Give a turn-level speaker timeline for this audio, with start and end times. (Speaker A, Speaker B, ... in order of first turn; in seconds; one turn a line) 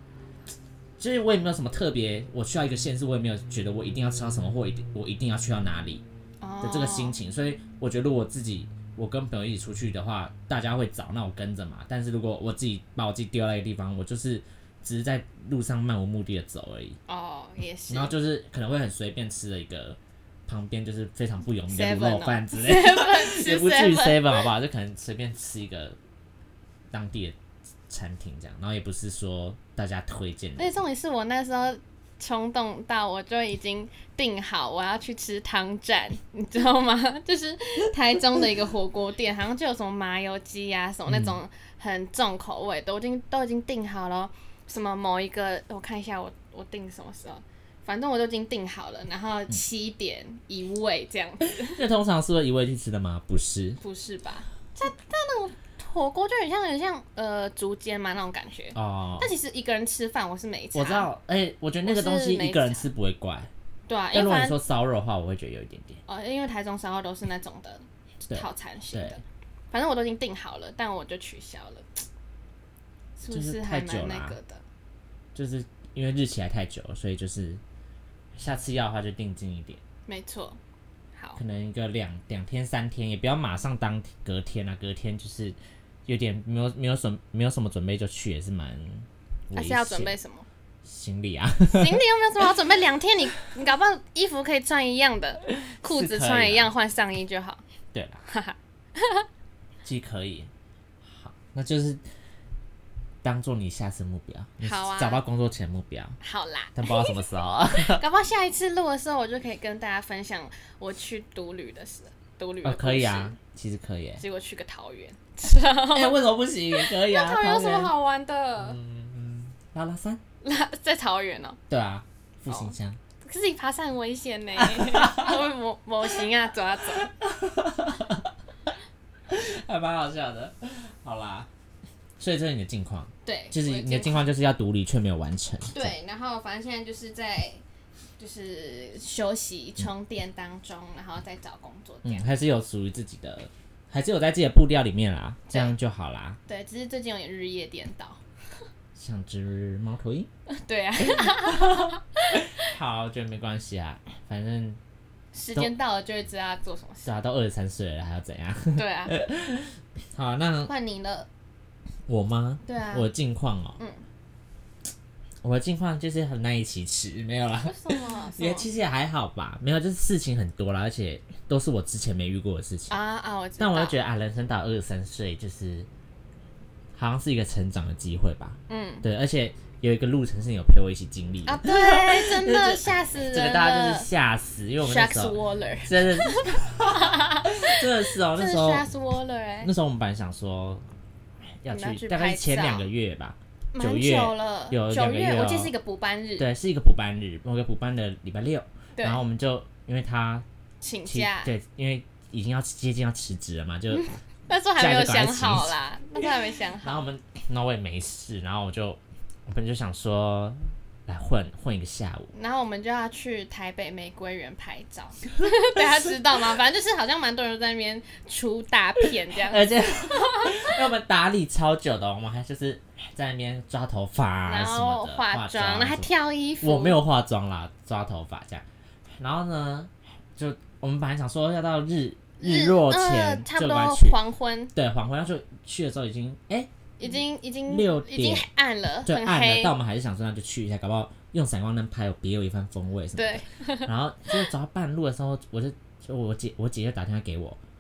Speaker A: 1.0-6.0
Speaker B: 6.4-7.2
Speaker A: 6.6-17.0
Speaker B: 17.1-18.1
Speaker A: 17.9-26.0
Speaker B: 21.7-24.5
Speaker A: 26.9-27.4
Speaker A: 27.9-30.8
Speaker B: 30.6-51.8
Speaker A: 41.1-41.4
Speaker A: 51.6-53.8
Speaker B: 53.8-61.1
Speaker A: 58.8-59.3
Speaker A: 60.7-63.5
Speaker B: 61.8-62.9
Speaker B: 63.9-64.6
Speaker A: 64.1-66.0
Speaker B: 66.1-72.0
Speaker A: 68.2-69.2
Speaker B: 73.2-74.6
Speaker A: 73.3-74.4
Speaker A: 75.3-77.6
Speaker A: 78.3-79.8
Speaker B: 80.1-80.6
Speaker A: 81.4-90.1
Speaker B: 89.5-90.5
Speaker A: 90.8-92.0
Speaker B: 91.7-97.6
Speaker A: 95.7-96.7
Speaker A: 97.9-98.2
Speaker B: 98.3-99.3
Speaker A: 99.8-100.5
Speaker A: 101.0-102.0
Speaker A: 103.2-106.2
Speaker B: 104.6-105.2
Speaker B: 106.2-107.2
Speaker A: 106.8-108.0
Speaker B: 107.8-113.3
Speaker A: 112.6-114.2
Speaker B: 114.2-116.2
Speaker A: 115.9-117.9
Speaker B: 116.7-118.8
Speaker A: 118.6-120.2
Speaker B: 120.4-121.6
Speaker A: 121.7-123.0
Speaker B: 122.5-127.1
Speaker A: 124.6-125.4
Speaker A: 126.9-128.3
Speaker A: 129.3-131.5
Speaker A: 132.2-135.9
Speaker B: 133.2-134.3
Speaker B: 135.7-137.6
Speaker B: 138.2-142.3
Speaker A: 142.0-146.4
Speaker B: 146.5-148.2
Speaker A: 149.0-150.3
Speaker B: 150.5-152.7
Speaker A: 151.0-154.8
Speaker B: 155.3-157.1
Speaker A: 157.0-160.7
Speaker B: 158.8-159.2
Speaker B: 160.7-161.3
Speaker A: 162.1-163.8
Speaker B: 162.6-163.1
Speaker B: 163.8-164.0
Speaker A: 165.4-173.0
Speaker B: 167.6-168.7
Speaker B: 172.9-174.0
Speaker A: 173.6-175.9
Speaker A: 176.9-188.9
Speaker B: 178.7-179.1
Speaker B: 181.4-184.1
Speaker B: 184.8-189.7
Speaker A: 189.6-190.8
Speaker A: 191.6-195.7
Speaker B: 191.7-192.9
Speaker B: 193.7-196.5
Speaker A: 196.4-200.4
Speaker B: 198.9-199.2
Speaker B: 200.8-201.5
Speaker A: 201.1-204.2
Speaker B: 203.9-207.0
Speaker A: 204.8-205.8
Speaker A: 206.8-212.3
Speaker B: 212.3-220.7
Speaker A: 219.3-228.7
Speaker B: 224.5-227.0
Speaker A: 229.2-234.2
Speaker B: 232.4-234.7
Speaker A: 234.7-238.5
Speaker B: 237.0-239.7
Speaker A: 239.0-247.6
Speaker B: 243.2-244.5